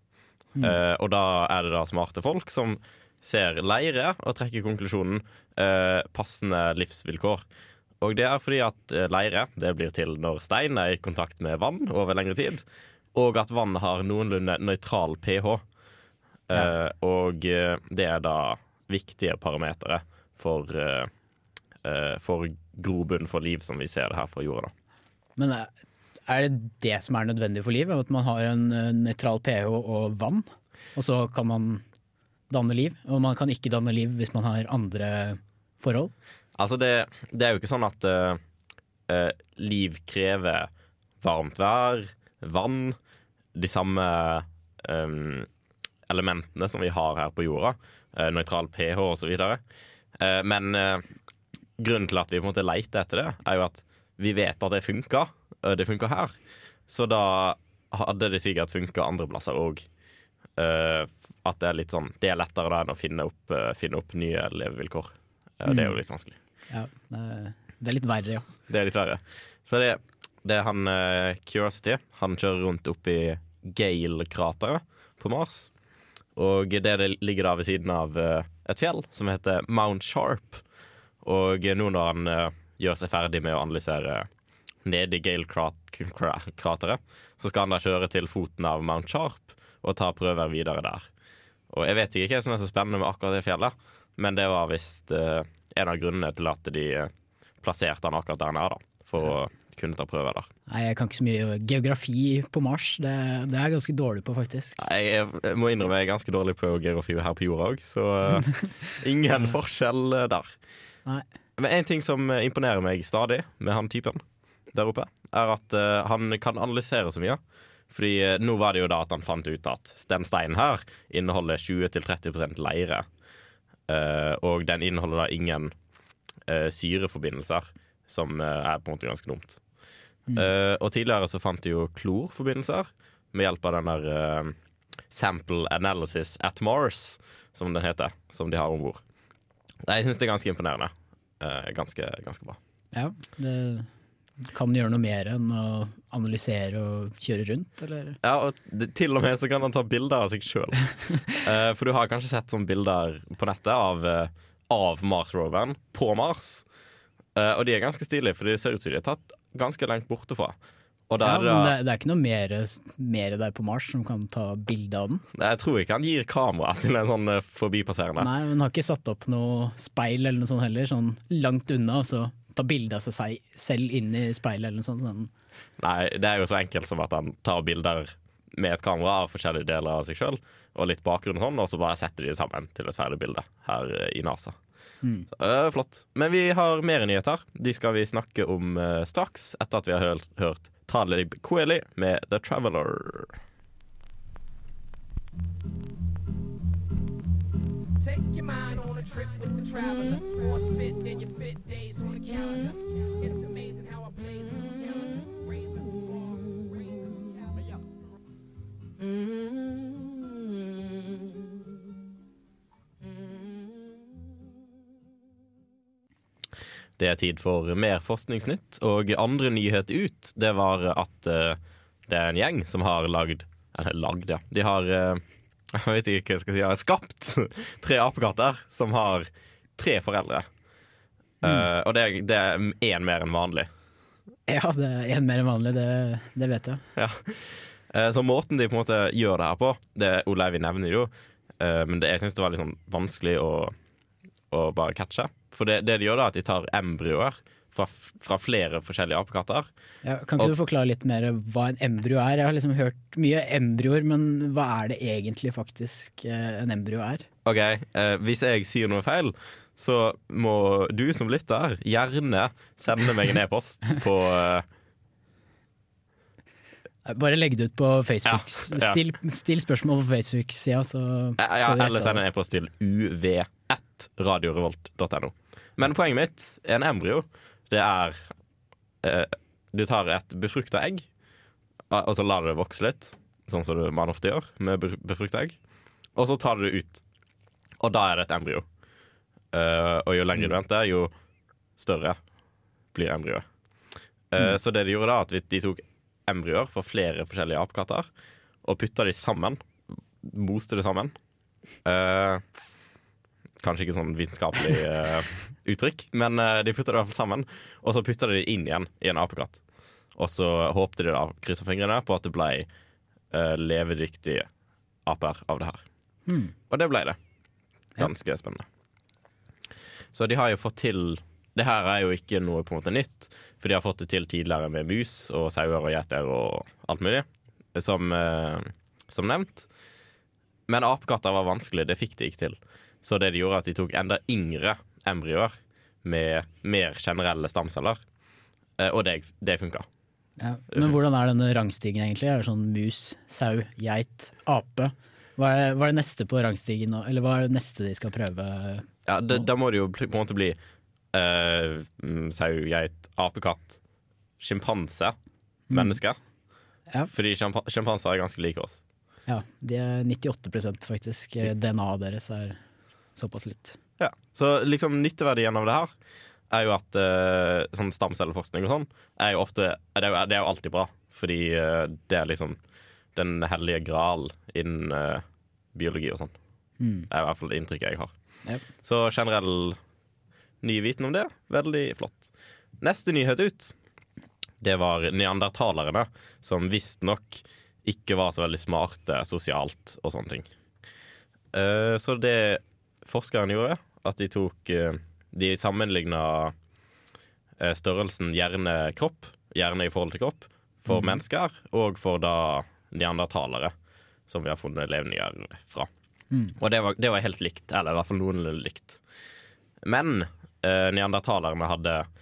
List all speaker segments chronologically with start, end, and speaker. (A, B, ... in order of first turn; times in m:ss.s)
0:00.6-0:07.4 A
0:08.0-0:15.6 A
0:16.5-0:21.1 A
0:21.8-0:24.7 A
0:25.4-0:25.7 B
0:26.3-0:31.8 B
0:32.5-0:36.1 B
0:36.6-0:38.4 A
0:39.1-0:40.7 A
0:41.2-0:43.0 A
0:43.5-0:45.5 A
0:46.1-0:49.6 A
0:50.2-0:51.0 A
0:51.8-0:56.3 A
0:56.9-0:59.8 A
1:00.6-1:06.4 A
1:05.7-1:06.0 B
1:06.7-1:08.4 B
1:08.7-1:15.7 A
1:16.4-1:20.6 A
1:21.2-1:24.3 A
1:24.8-1:31.1 A
1:31.7-1:37.1 A
1:37.6-1:40.5 A
1:40.7-1:44.8 B
1:44.8-1:50.5 A
1:51.6-1:57.4 A
1:57.9-2:03.0 A
2:03.9-2:05.7 A
2:06.4-2:09.6 A
2:10.3-2:14.5 A
2:15.1-2:19.0 A
2:19.8-2:22.6 A
2:22.9-2:23.9 B
2:24.4-2:28.2 B
2:28.2-2:36.6 A
2:37.4-2:40.5 A
2:41.1-2:41.8 A
2:41.2-2:45.2 B
2:45.3-2:48.3 A
2:48.2-2:55.3 B
2:55.8-3:04.6 A
3:05.3-3:13.3 A
3:18.0-3:27.9 C
3:37.0-3:45.2 A
3:45.7-3:50.4 A
3:51.4-3:53.7 A
3:54.5-3:56.8 B
3:57.0-4:03.7 A
4:04.5-4:09.7 A
4:10.0-4:17.2 B
4:17.4-4:24.6 A
4:27.0-4:32.2 B
4:28.2-4:29.0 A
4:31.4-4:38.2 A
4:39.0-4:41.0 A
4:41.9-4:45.6 A
4:46.2-4:47.0 A
4:47.8-4:48.6 A
4:49.5-4:51.1 A
4:51.8-4:52.2 A
4:52.9-4:53.4 A
4:54.3-4:58.1 A
4:58.6-4:59.6 A
5:00.2-5:01.1 A
5:01.8-5:02.4 A
5:03.6-5:09.6 A
5:10.1-5:12.7 A
5:13.3-5:14.5 A
5:15.0-5:15.8 A
5:16.3-5:16.5 B
5:16.7-5:17.2 A
5:18.0-5:18.6 A
5:20.1-5:29.6 A
5:30.7-5:38.0 A
5:38.8-5:39.8 A
5:40.4-5:49.4 B
5:49.0-5:50.6 A
5:51.1-5:53.8 A
5:54.4-5:55.1 A
5:55.7-5:56.0 B
5:55.7-5:56.2 A
5:57.1-5:58.8 A
5:59.3-6:02.6 B
6:03.2-6:03.8 B
6:04.0-6:05.9 A
6:06.5-6:12.6 A
6:13.1-6:16.3 A
6:16.8-6:17.1 B
6:17.1-6:18.1 A
6:18.8-6:19.8 A
6:20.6-6:22.3 A
6:22.8-6:23.7 A
6:24.6-6:30.5 A
6:31.5-6:36.5 A
6:37.6-6:43.7 A
6:40.9-6:41.2 B
6:44.3-6:45.9 A
6:46.6-6:49.0 A
6:49.8-6:52.1 A